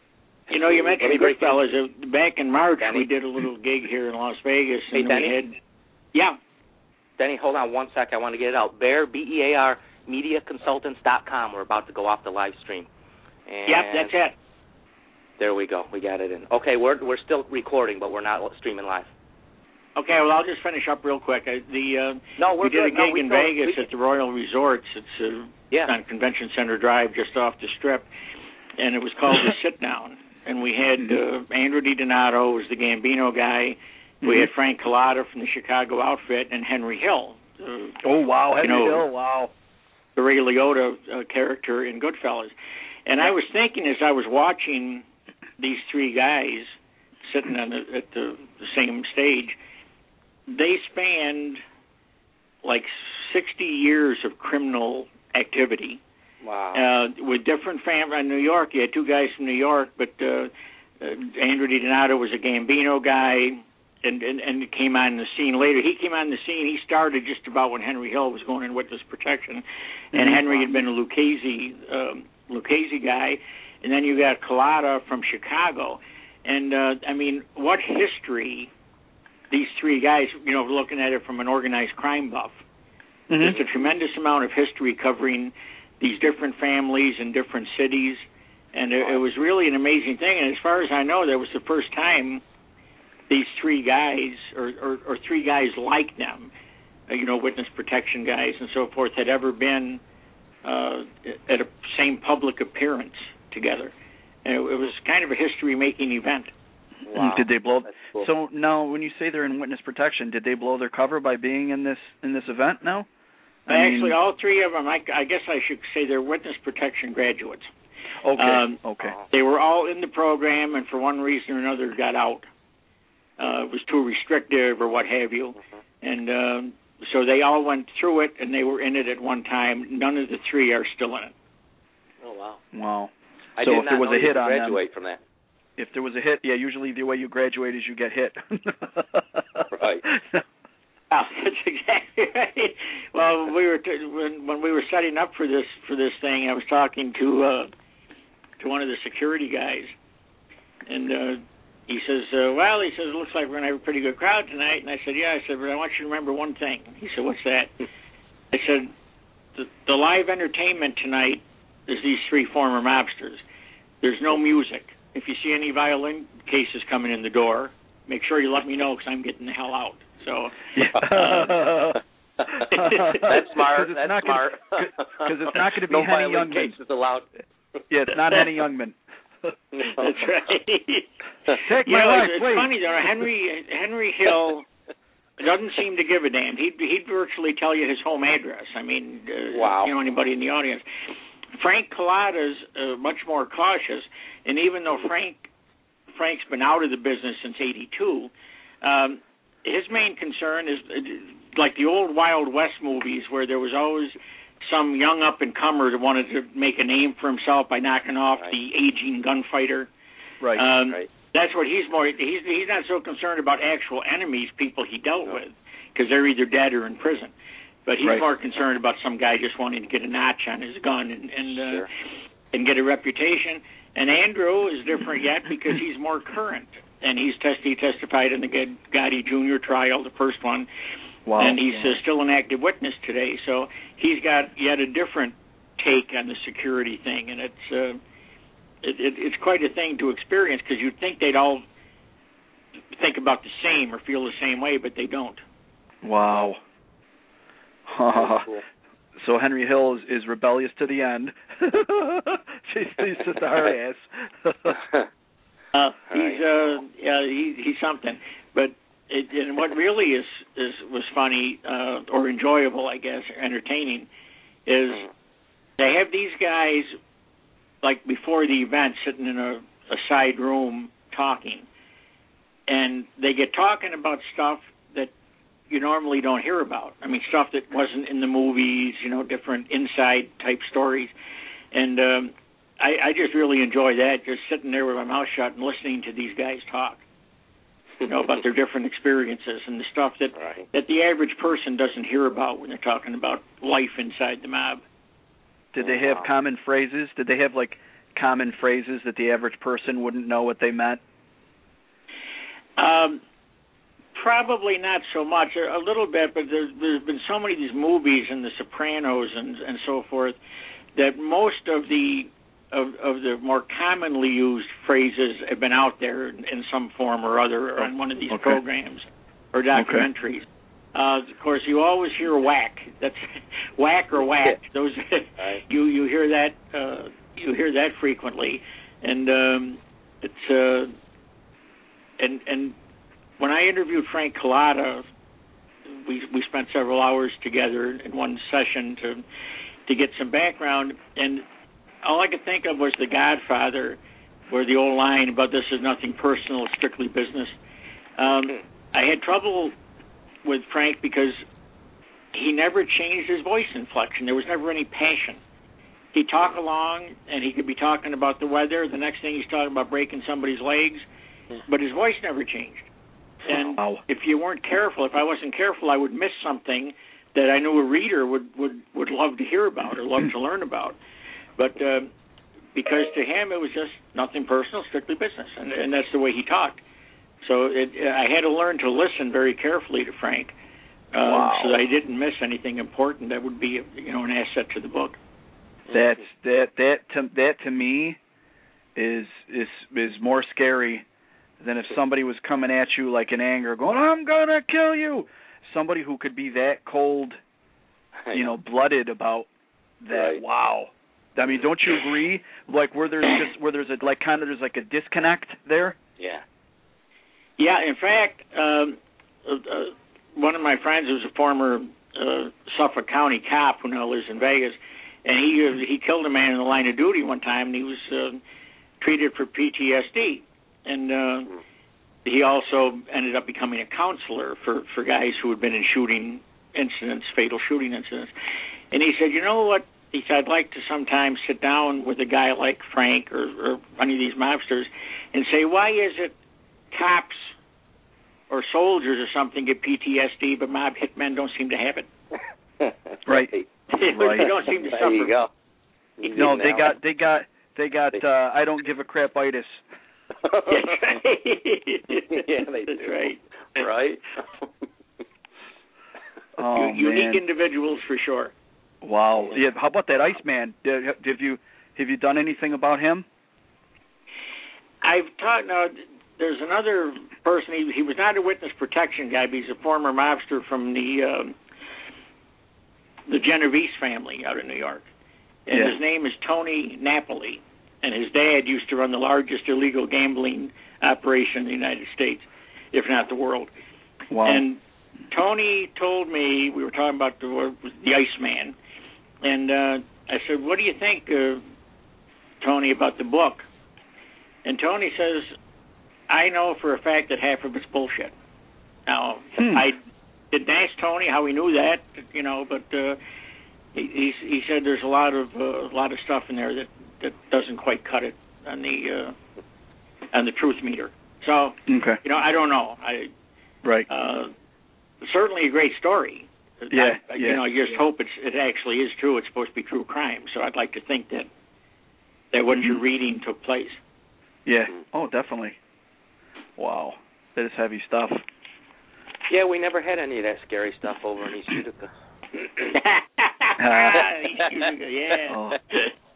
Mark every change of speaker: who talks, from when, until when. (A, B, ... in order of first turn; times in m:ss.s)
0:00.5-0:05.6 A
0:00.5-0:01.6 B
0:02.8-0:03.0 B
0:04.9-0:05.4 B
0:07.2-0:12.9 B
0:13.5-0:14.1 B
0:13.7-0:14.3 A
0:15.4-0:19.1 B
0:20.0-0:28.1 A
0:22.4-0:23.8 B
0:28.8-0:38.0 A
0:34.2-0:34.5 C
0:38.0-0:39.5 C
0:38.6-0:39.0 A
0:40.2-0:42.5 A
0:43.0-0:45.0 A
0:45.6-0:46.7 A
0:47.2-0:49.6 A
0:50.5-0:51.6 A
0:52.6-0:56.0 A
0:56.4-0:56.8 B
0:56.7-1:18.7 A
1:10.1-1:10.7 C
1:19.5-1:22.6 A
1:23.3-1:23.6 C
1:23.4-1:32.4 A
1:33.3-1:36.5 A
1:37.1-1:40.0 A
1:40.6-1:43.9 A
1:44.4-1:46.5 A
1:47.0-1:48.3 B
1:47.1-1:53.1 C
1:53.7-1:54.2 C
1:53.7-1:57.7 A
1:58.2-1:59.2 C
1:58.4-2:02.4 A
1:59.0-1:59.3 B
2:03.4-2:11.3 A
2:12.2-2:12.6 B
2:12.7-2:14.8 C
2:13.6-2:15.2 B
2:15.8-2:20.4 C
2:19.7-2:20.0 B
2:21.1-2:27.7 A
2:28.6-2:29.9 A
2:30.9-2:37.7 A
2:38.5-2:38.9 A
2:39.6-2:43.4 A
2:44.0-2:51.4 A
2:50.7-2:56.8 C
2:50.9-2:51.3 B
2:52.6-2:57.3 B
2:52.7-2:53.3 A
2:57.9-2:59.5 C
2:59.7-3:00.1 B
2:59.8-3:01.1 A
3:01.5-3:02.7 C
3:01.7-3:04.6 A
3:05.4-3:10.8 A
3:09.5-3:09.9 B
3:11.6-3:15.5 A
3:16.1-3:18.3 A
3:18.8-3:29.9 A
3:30.4-3:30.7 C
3:30.6-3:37.3 A
3:37.9-3:41.9 A
3:41.5-3:41.9 B
3:42.5-3:50.7 A
3:51.3-3:52.0 C
3:51.4-3:58.0 A
3:58.8-4:01.6 A
4:03.0-4:05.4 A
4:06.0-4:06.6 C
4:07.9-4:08.5 C
4:08.1-4:08.6 B
4:09.2-4:14.8 C
4:15.7-4:24.1 A
4:16.1-4:16.4 B
4:24.7-4:25.0 A
4:25.8-4:27.0 A
4:27.8-4:31.7 A
4:32.7-4:35.1 A
4:35.7-4:41.1 A
4:41.7-4:47.0 A
4:48.0-4:48.4 B
4:48.0-4:54.8 A
4:50.3-4:50.7 B
4:55.7-5:01.0 C
4:55.8-4:56.3 B
5:02.8-5:03.2 A
5:04.1-5:10.4 A
5:11.0-5:30.9 A
5:18.3-5:18.6 C
5:19.7-5:20.1 C
5:24.3-5:24.6 B
5:32.2-5:32.7 A
5:33.4-5:35.0 A
5:35.9-5:39.2 A
5:39.9-5:41.4 A
5:42.0-5:47.6 A
5:48.2-5:49.7 A
5:50.4-5:51.4 A
5:52.3-5:55.4 A
5:56.1-6:01.0 A
6:01.7-6:02.9 A
6:03.4-6:11.0 A
6:03.5-6:04.0 C
6:11.6-6:12.1 A
6:12.7-6:16.8 A
6:17.4-6:20.5 A
6:21.1-6:25.2 A
6:21.2-6:21.8 C
6:25.9-6:28.2 C
6:29.0-6:31.0 C
6:31.6-6:37.4 C
6:38.3-6:39.5 C
6:40.0-6:46.0 C
6:40.1-6:40.4 B
6:46.2-6:46.4 B
6:47.6-6:58.4 A
6:59.0-7:01.6 A
7:02.2-7:08.3 A
7:08.9-7:16.3 A
7:16.9-7:17.5 A
7:18.5-7:22.1 A
7:22.8-7:23.7 B
7:23.3-7:23.5 C
7:23.9-7:25.4 A
7:24.1-7:24.5 C
7:24.4-7:25.5 B
7:26.2-7:26.9 B
7:26.2-7:26.7 A
7:26.4-7:29.8 C
7:30.4-7:31.0 B
7:30.7-7:33.9 A
7:32.1-7:34.7 B
7:36.6-7:37.4 C
7:36.7-7:38.5 A
7:39.0-7:43.2 C
7:45.0-7:51.6 A
7:53.3-7:55.1 A
7:55.7-8:03.7 A
7:55.7-7:56.0 C
8:04.3-8:04.6 C
8:04.4-8:08.7 A
8:09.4-8:11.6 A
8:12.6-8:13.6 A
8:14.6-8:15.6 A
8:16.3-8:18.3 A
8:19.1-8:23.2 A
8:19.6-8:19.9 C
8:23.9-8:29.4 A
8:30.3-8:33.3 A
8:31.9-8:32.2 C
8:34.1-8:34.5 A
8:35.2-8:41.5 A
8:36.9-8:37.6 C
8:42.5-8:44.0 A
8:42.7-8:43.0 C
8:44.7-8:45.8 C
8:46.8-8:48.4 C
8:49.5-8:52.1 B
8:52.6-8:52.9 B
8:52.9-8:56.1 A
8:53.8-8:54.2 C
8:55.5-8:55.8 C